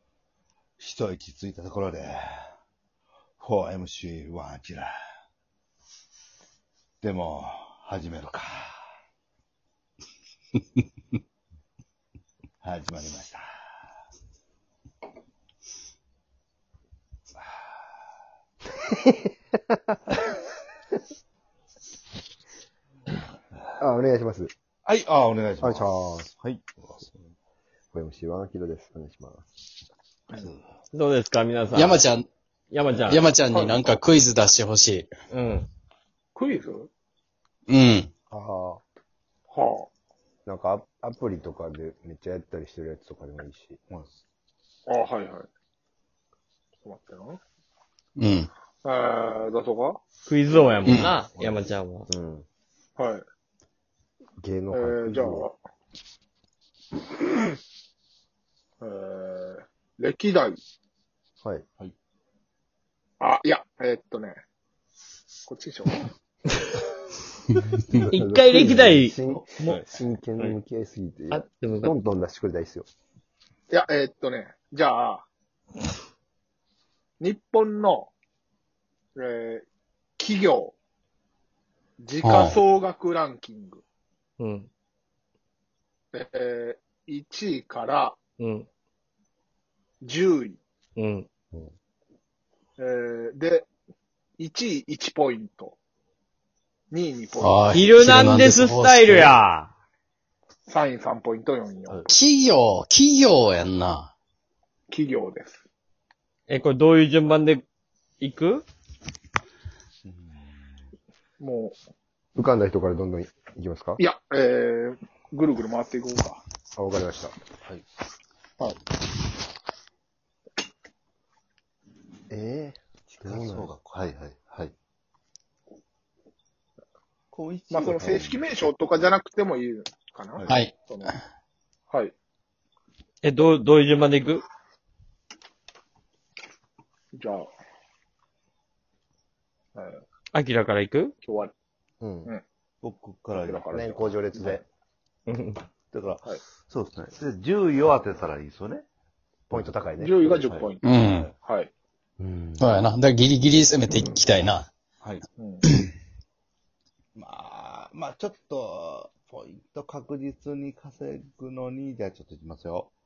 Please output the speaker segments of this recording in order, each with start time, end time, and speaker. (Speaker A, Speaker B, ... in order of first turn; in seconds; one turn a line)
Speaker A: 0.8-2.5
Speaker A: 3.4-5.0
Speaker A: 7.0-8.9
Speaker A: 12.6-13.4
Speaker B: 19.0-19.9
Speaker B: 23.8-24.5
Speaker A: 24.8-27.3
Speaker B: 25.6-26.3
Speaker B: 27.9-29.4
Speaker A: 30.3-30.6
Speaker C: 30.9-32.0
Speaker D: 31.7-32.2
Speaker C: 32.7-33.3
Speaker D: 33.0-35.1
Speaker E: 33.5-33.8
Speaker C: 35.3-35.7
Speaker E: 36.3-36.9
Speaker D: 37.7-38.1
Speaker B: 38.3-38.8
Speaker E: 39.5-39.9
Speaker B: 40.5-43.8
Speaker E: 44.9-45.5
Speaker E: 46.8-47.4
Speaker D: 48.2-48.5
Speaker E: 48.8-50.0
Speaker C: 50.2-52.1
Speaker E: 50.5-50.9
Speaker D: 50.8-51.1
Speaker B: 52.1-52.4
Speaker E: 53.0-53.2
Speaker B: 54.4-55.5
Speaker E: 54.7-55.5
Speaker E: 58.8-60.6
Speaker E: 63.2-64.4
Speaker E: 65.5-66.1
Speaker B: 67.9-72.9
Speaker C: 68.1-70.5
Speaker C: 71.3-71.9
Speaker E: 73.7-75.2
Speaker E: 77.2-78.1
Speaker E: 79.2-79.6
Speaker E: 80.2-80.7
Speaker E: 82.0-83.8
Speaker D: 82.2-82.6
Speaker C: 84.4-84.7
Speaker E: 86.1-88.2
Speaker C: 88.4-88.7
Speaker E: 90.0-90.6
Speaker C: 91.0-91.2
Speaker E: 92.8-93.7
Speaker E: 94.4-95.8
Speaker E: 96.9-97.8
Speaker D: 97.4-99.4
Speaker C: 97.7-99.7
Speaker E: 100.7-102.1
Speaker D: 102.1-104.1
Speaker E: 104.9-105.6
Speaker C: 106.5-107.6
Speaker C: 108.2-108.6
Speaker A: 110.0-110.9
Speaker E: 111.4-111.8
Speaker B: 112.3-114.0
Speaker E: 114.0-116.4
Speaker B: 116.8-117.3
Speaker B: 122.3-123.7
Speaker A: 123.2-124.7
Speaker A: 127.3-128.5
Speaker E: 127.7-131.2
Speaker A: 130.4-130.7
Speaker D: 130.5-131.1
Speaker C: 133.2-134.4
Speaker E: 137.2-137.5
Speaker E: 139.8-140.0
Speaker C: 140.3-141.2
Speaker E: 141.2-141.5
Speaker B: 142.0-142.3
Speaker A: 142.8-143.8
Speaker E: 143.3-144.6
Speaker B: 143.7-144.7
Speaker C: 145.3-145.6
Speaker A: 145.9-148.8
Speaker B: 149.5-150.2
Speaker A: 149.5-151.3
Speaker E: 150.0-150.8
Speaker D: 150.8-151.3
Speaker E: 151.4-151.7
Speaker B: 152.2-152.8
Speaker D: 152.6-154.7
Speaker E: 155.4-155.7
Speaker A: 157.2-162.9